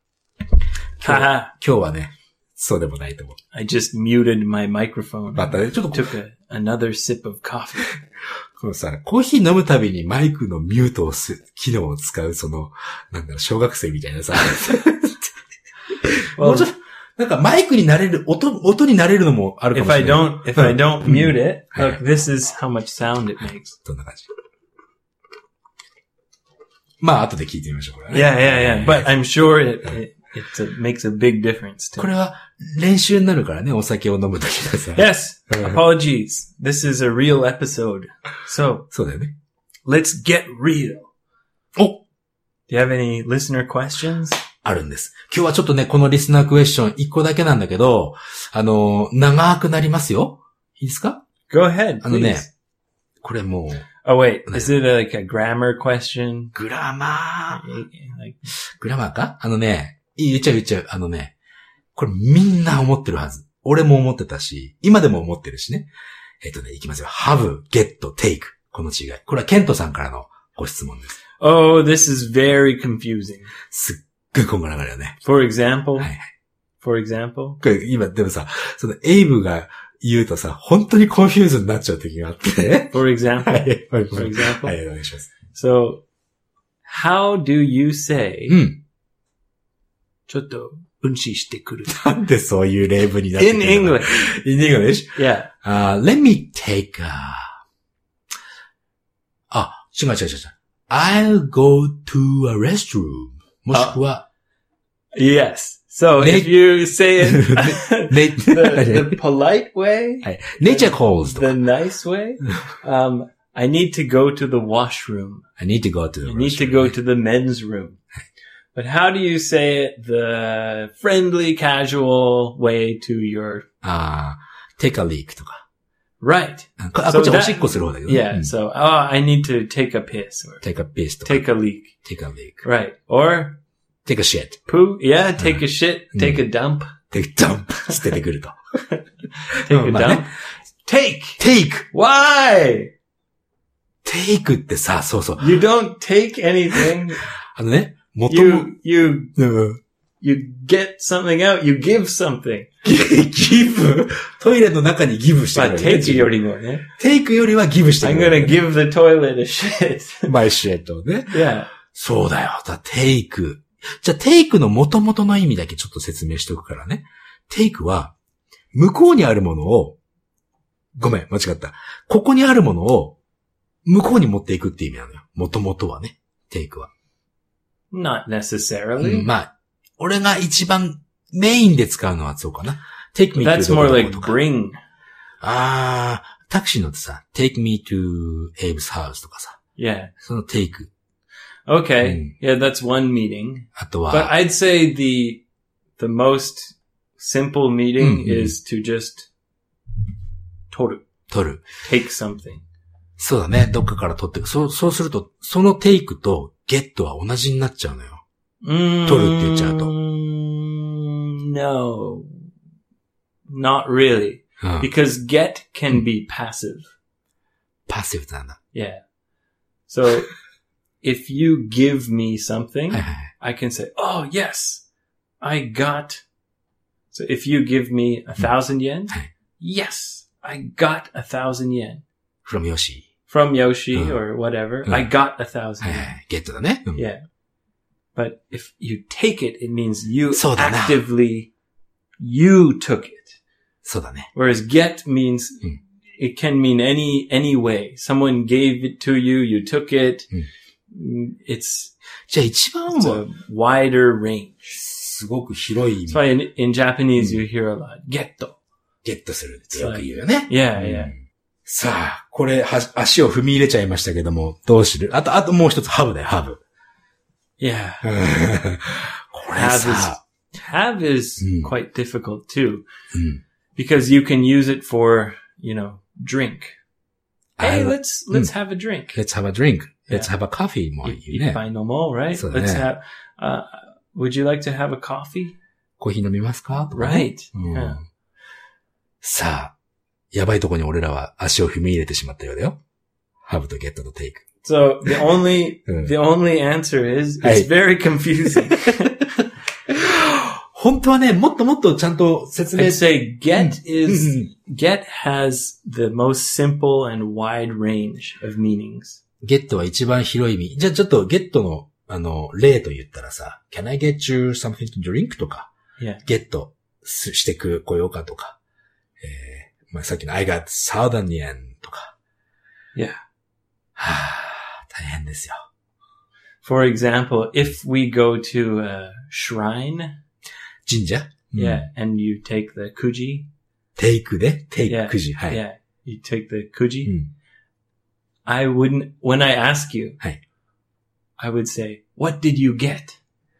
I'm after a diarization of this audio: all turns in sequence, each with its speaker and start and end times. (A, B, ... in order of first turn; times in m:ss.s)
0:01.0-0:03.4 A
0:01.0-0:01.5 B
0:03.5-0:08.0 B
0:05.3-0:06.1 A
0:08.6-0:15.3 A
0:15.9-0:22.0 A
0:16.4-0:16.7 B
0:19.7-0:23.8 B
0:23.8-0:24.3 A
0:27.0-0:29.1 A
0:28.1-0:32.1 B
0:32.0-0:35.8 A
0:34.9-0:38.9 B
0:38.9-0:39.3 A
0:39.8-0:41.1 B
0:41.8-0:42.0 A
0:42.7-0:44.4 B
0:44.6-0:51.2 A
0:51.5-0:52.5 B
0:52.0-0:52.4 A
0:53.2-0:53.9 A
0:54.0-0:56.5 B
0:56.5-0:57.6 A
0:57.5-0:58.5 B
0:58.7-1:01.3 A
1:01.9-1:05.9 A
1:06.4-1:11.2 A
1:11.4-1:13.5 B
1:13.7-1:15.2 A
1:15.2-1:16.1 B
1:16.0-1:16.2 A
1:16.8-1:17.6 B
1:17.6-1:25.3 A
1:22.9-1:24.8 B
1:25.5-1:26.0 B
1:26.8-1:28.6 B
1:28.5-1:28.8 A
1:30.3-1:32.0 B
1:31.9-1:37.6 A
1:33.4-1:34.2 B
1:35.1-1:35.5 B
1:39.5-1:44.2 A
1:43.7-1:44.0 B
1:45.1-1:55.5 B
1:46.2-1:46.6 A
1:47.2-1:49.2 A
1:50.2-1:51.5 A
1:55.6-1:56.9 A
1:56.2-1:58.0 B
1:58.7-2:03.6 B
2:03.8-2:05.6 A
2:06.2-2:10.6 B
2:06.8-2:08.5 A
2:10.6-2:11.4 A
2:11.2-2:11.9 B
2:12.0-2:12.6 A
2:12.6-2:13.6 B
2:14.0-2:14.6 A
2:14.7-2:16.9 B
2:16.1-2:16.4 A
2:17.1-2:18.6 A
2:18.9-2:22.9 B
2:19.6-2:20.2 A
2:21.4-2:21.8 A
2:24.0-2:25.5 A
2:25.4-2:27.2 B
2:27.4-2:28.7 A
2:28.3-2:29.4 B
2:29.4-2:29.8 A
2:30.2-2:32.7 B
2:32.8-2:36.3 A
2:35.5-2:36.9 B
2:37.0-2:38.6 A
2:38.0-2:40.3 B
2:40.2-2:48.1 A
2:41.3-2:41.7 B
2:48.7-2:50.0 A
2:51.0-2:53.2 A
2:53.8-2:56.9 A
2:57.9-2:59.3 B
2:59.0-3:04.4 A
3:03.4-3:04.8 B
3:05.4-3:09.6 A
3:09.8-3:10.1 B
3:10.2-3:10.9 A
3:11.7-3:15.4 B
3:12.0-3:12.3 A
3:13.8-3:14.3 A
3:16.0-3:19.3 B
3:18.0-3:18.5 A
3:20.7-3:21.0 B
3:21.3-3:21.6 A
3:21.8-3:22.6 B
3:23.2-3:28.2 A
3:28.6-3:32.5 B
3:29.0-3:29.9 A
3:33.5-3:36.9 B
3:34.6-3:34.9 A
3:37.9-3:38.6 A
3:38.7-3:39.0 B
3:39.9-3:40.3 B
3:41.0-3:44.8 B
3:42.9-3:43.3 A
3:45.4-3:46.2 B
3:47.1-3:52.0 B
3:52.4-3:53.1 A
3:53.3-3:56.1 B
3:53.9-3:54.2 A
3:55.8-3:57.0 A
3:56.9-3:57.2 B
3:58.1-4:01.5 B
4:00.3-4:01.0 A
4:02.2-4:03.4 B
4:03.8-4:04.3 A
4:04.3-4:10.3 B
4:10.9-4:11.9 B
4:12.3-4:13.2 A
4:12.9-4:14.8 B
4:14.8-4:16.2 A
4:16.1-4:18.6 B
4:19.0-4:26.6 A
4:19.7-4:21.1 B
4:27.6-4:28.1 B
4:28.0-4:30.2 A
4:29.5-4:32.8 B
4:31.4-4:31.7 A
4:33.1-4:33.4 A
4:33.8-4:36.8 B
4:37.6-4:38.5 A
4:37.6-4:39.2 B
4:39.1-4:41.6 A
4:41.0-4:45.6 B
4:42.3-4:42.8 A
4:46.0-4:48.0 A
4:46.9-4:48.0 B
4:49.2-4:49.7 A
4:50.3-4:52.8 A
4:53.4-4:54.4 A
4:54.6-4:59.4 B
4:57.4-4:57.7 A
4:58.4-4:58.8 A
4:59.9-5:04.5 A
5:02.7-5:09.2 B
5:09.4-5:15.7 A
5:16.0-5:16.2 B
5:16.2-5:18.6 A
5:19.2-5:22.1 A
5:22.9-5:23.2 B
5:24.0-5:25.6 A
5:26.6-5:30.2 B
5:30.8-5:31.8 A
5:31.5-5:33.5 B
5:34.0-5:35.6 A
5:34.9-5:37.1 B
5:38.4-5:40.2 B
5:41.4-5:43.2 B